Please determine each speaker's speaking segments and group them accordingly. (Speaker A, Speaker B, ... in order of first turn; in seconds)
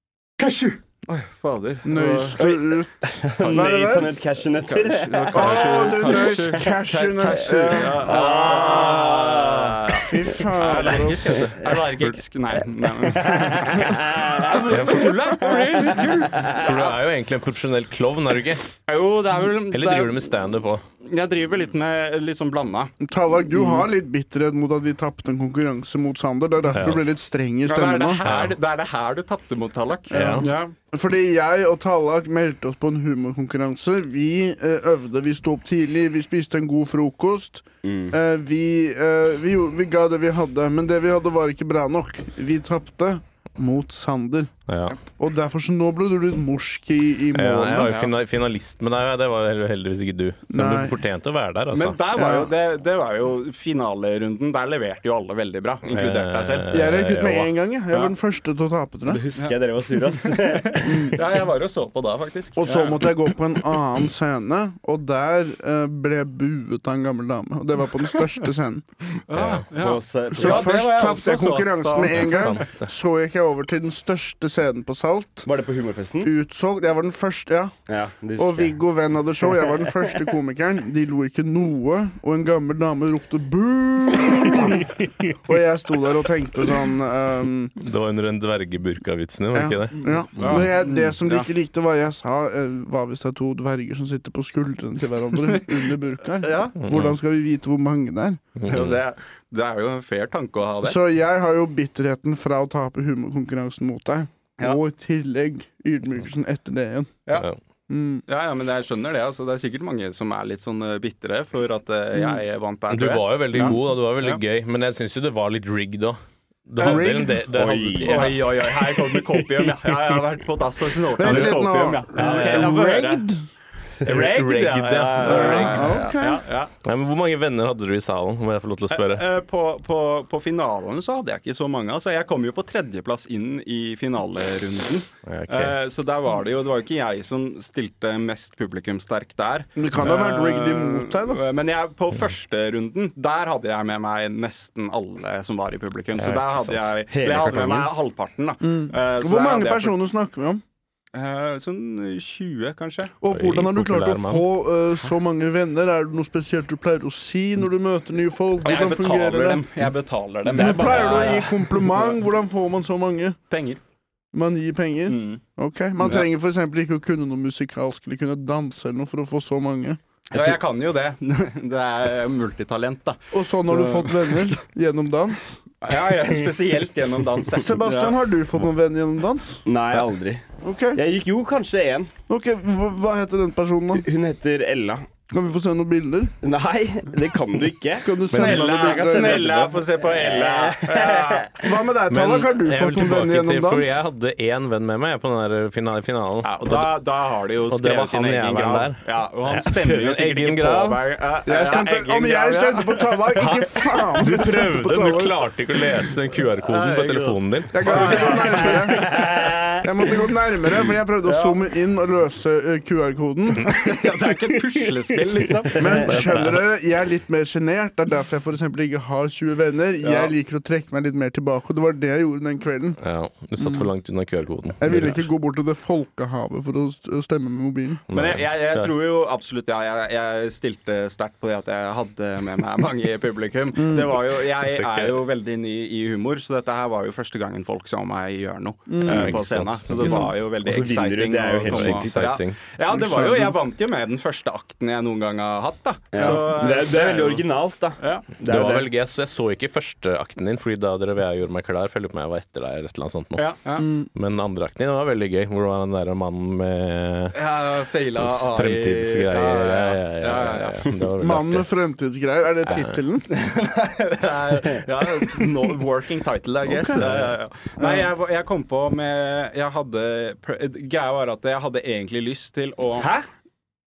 Speaker A: 0.4-2.8, 3.4-3.7, 4.6-17.0, 18.9-20.3, 21.0-22.9, 23.5-23.9, 27.6-30.7, 47.8-48.1, 51.7-56.7, 59.4-63.1, 69.3-72.6, 90.4-91.5, 96.4-96.8, 98.7-101.0, 108.2-114.4, 116.8-117.1, 118.0-123.2, 124.0-126.7, 128.9-149.9, 151.1-153.1, 158.6-162.2, 163.5-163.8, 165.1-165.4, 170.3-174.6, 175.8-178.1, 188.3-191.5, 196.4-204.3, 206.6-209.8, 210.8-211.6, 213.6-216.4, 220.0-220.3, 228.1-247.4, 248.0-248.3, 253.3-253.9, 257.3-260.9, 263.3-273.1
Speaker B: 1.8-4.1, 5.3-9.3, 10.0-11.4, 23.0-28.2, 30.1-48.0, 50.5-51.0, 52.1-52.5, 56.7-59.2, 60.8-61.2, 62.6-68.8, 70.3-75.5, 76.2-77.7, 78.4-87.8, 89.5-98.4, 100.8-107.1, 107.9-108.2, 112.2-112.4, 116.8-117.5, 121.2-123.4, 125.2-126.4, 139.8-141.4, 148.6-150.6, 153.2-159.6, 160.5-163.4, 164.3-170.0, 173.3-175.6, 177.6-179.6, 180.6-181.0, 182.3-184.1, 185.3-186.3, 188.0-189.6, 191.6-193.9, 201.4-205.4, 207.7-213.8, 215.7-223.0, 223.6-223.9, 224.8-228.0, 233.7-234.2, 238.9-239.4, 239.9-240.4, 242.9-243.5, 253.8-254.1, 261.2-263.3, 266.6-267.1, 267.8-268.1
Speaker C: 3.0-6.6, 7.7-9.8, 11.5-11.9, 12.8-16.6, 37.8-38.1, 59.0-61.2, 69.7-70.8, 75.4-76.3, 77.9-78.8, 79.4-80.2, 117.5-118.3, 121.3-121.5, 147.1-147.9, 160.6-161.3, 179.7-180.4, 180.9-182.1, 183.9-185.1, 186.4-191.7, 208.6-209.8, 240.6-242.3, 246.1-248.9, 273.0-273.2
Speaker D: 14.7-15.2, 16.5-18.6, 19.7-20.8, 26.7-27.0, 28.2-28.6, 30.1-30.5, 44.7-45.0, 47.3-52.0, 55.9-57.5, 69.3-69.7, 72.1-72.9, 87.8-90.6, 96.8-97.2, 98.6-99.0, 112.9-118.4, 122.2-122.7, 124.0-126.0, 126.8-129.2, 135.2-135.8, 146.2-146.9, 153.3-154.4, 192.1-196.9, 197.7-201.0, 204.2-208.2, 216.0-216.6, 223.0-225.3, 228.1-228.9, 234.6-235.2, 239.0-240.4, 241.6-242.6, 248.4-253.4, 254.1-257.4, 258.2-261.7, 262.7-262.9